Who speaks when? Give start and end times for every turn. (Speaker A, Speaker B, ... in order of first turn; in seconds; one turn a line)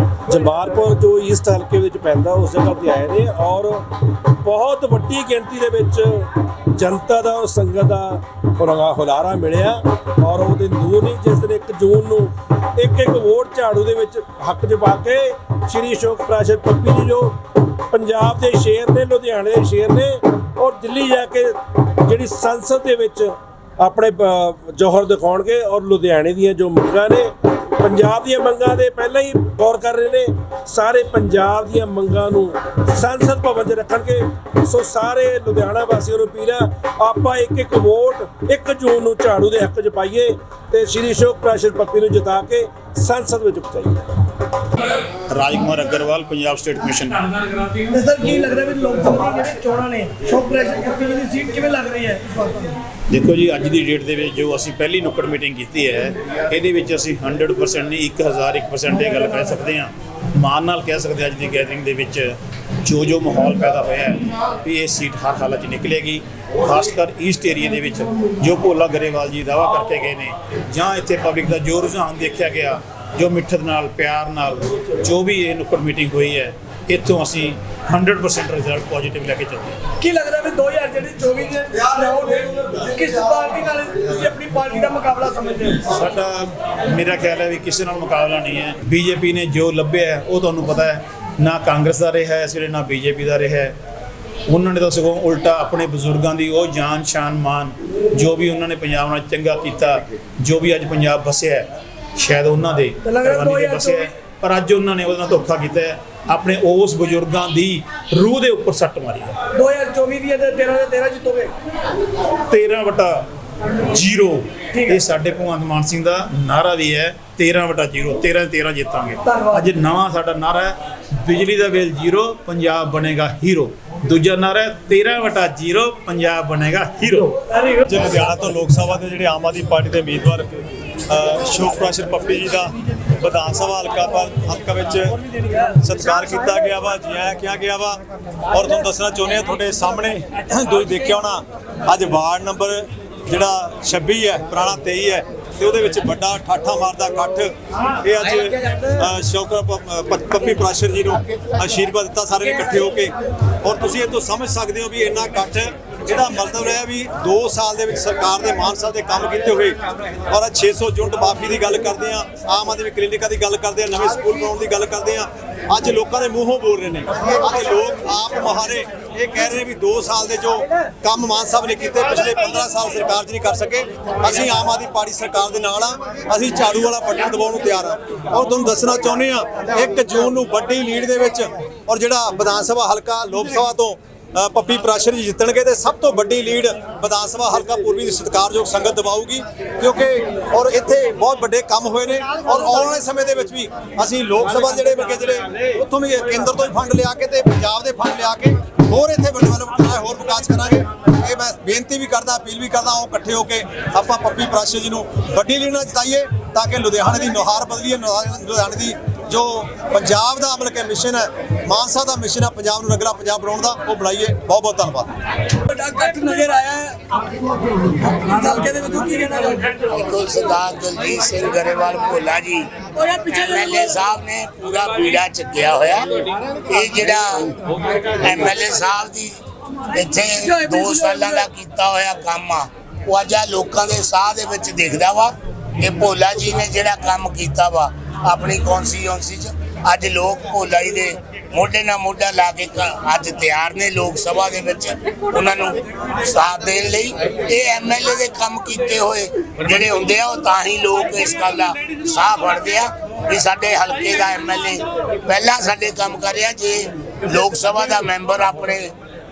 Speaker A: 0.3-44.0
Speaker B: 45.3-47.8
Speaker C: 47.9-52.7
Speaker B: 53.1-79.8
Speaker C: 80.0-85.8
Speaker B: 85.8-93.8
Speaker B: 94.5-109.4
Speaker C: 103.0-104.1
Speaker C: 109.5-111.5
Speaker B: 112.5-113.3
Speaker B: 113.8-127.4
Speaker C: 119.2-119.6
Speaker D: 127.8-215.1
Speaker C: 215.5-219.8
Speaker E: 219.8-229.4
Speaker C: 223.0-223.8
Speaker E: 229.9-258.9
Speaker C: 230.4-231.4